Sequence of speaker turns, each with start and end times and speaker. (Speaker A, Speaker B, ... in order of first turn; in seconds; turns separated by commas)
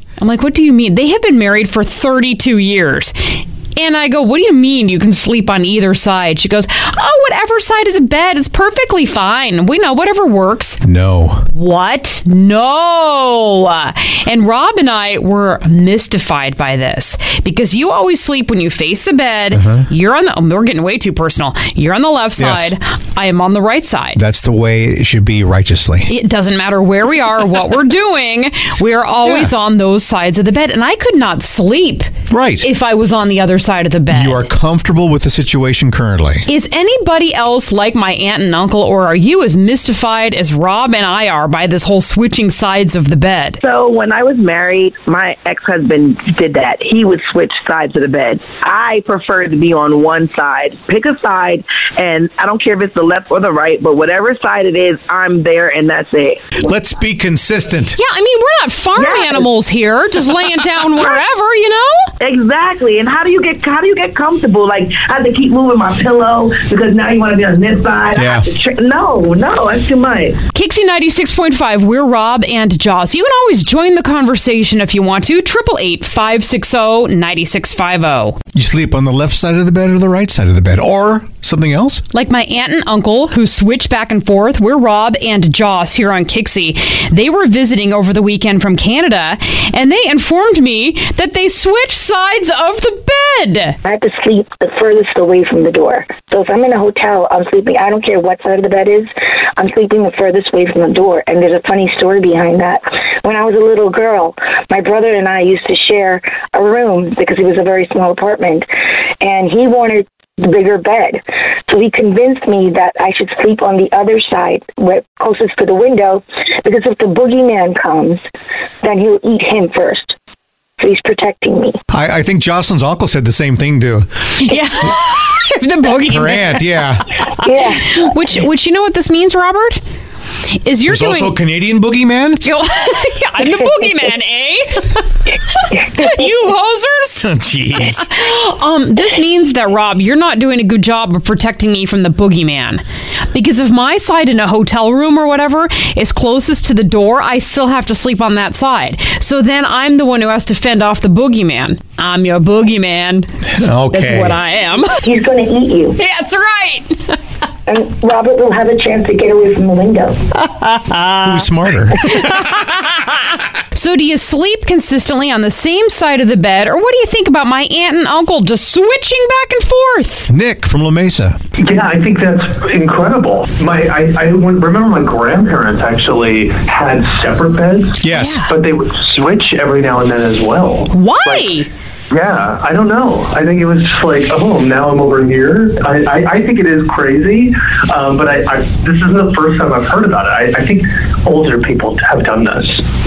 Speaker A: 0.2-3.1, Speaker A: 3.8-10.8, Speaker B: 10.8-11.4, Speaker A: 11.5-24.2, Speaker B: 19.5-19.8, Speaker B: 22.4-22.7, Speaker B: 24.1-26.1, Speaker A: 26.1-32.1, Speaker B: 29.2-29.5, Speaker B: 32.3-32.7, Speaker A: 32.6-34.5, Speaker B: 34.1-36.5, Speaker A: 36.5-43.6, Speaker C: 43.6-56.4, Speaker B: 56.6-58.0, Speaker A: 58.0-62.0, Speaker C: 59.0-59.5, Speaker C: 62.2-70.4, Speaker B: 68.1-68.5, Speaker A: 70.5-78.4, Speaker B: 78.5-82.0, Speaker A: 82.1-93.8, Speaker D: 93.8-108.7, Speaker D: 109.2-118.2, Speaker D: 118.8-120.2, Speaker D: 120.8-121.8, Speaker B: 121.9-124.1, Speaker A: 124.4-129.8, Speaker B: 126.0-127.2, Speaker D: 127.4-127.9, Speaker A: 130.6-131.4, Speaker B: 130.9-132.4, Speaker A: 132.4-142.8, Speaker B: 137.2-138.0, Speaker A: 143.3-153.3, Speaker B: 153.5-154.4, Speaker A: 153.9-155.0, Speaker D: 155.0-156.0, Speaker A: 156.0-157.2, Speaker D: 157.7-160.2, Speaker A: 160.3-161.5, Speaker B: 161.2-162.5, Speaker A: 162.0-162.7, Speaker A: 163.7-170.3, Speaker B: 170.3-171.4, Speaker E: 171.6-181.6, Speaker B: 178.0-178.4, Speaker A: 178.1-178.5, Speaker A: 180.9-181.7, Speaker E: 182.1-192.8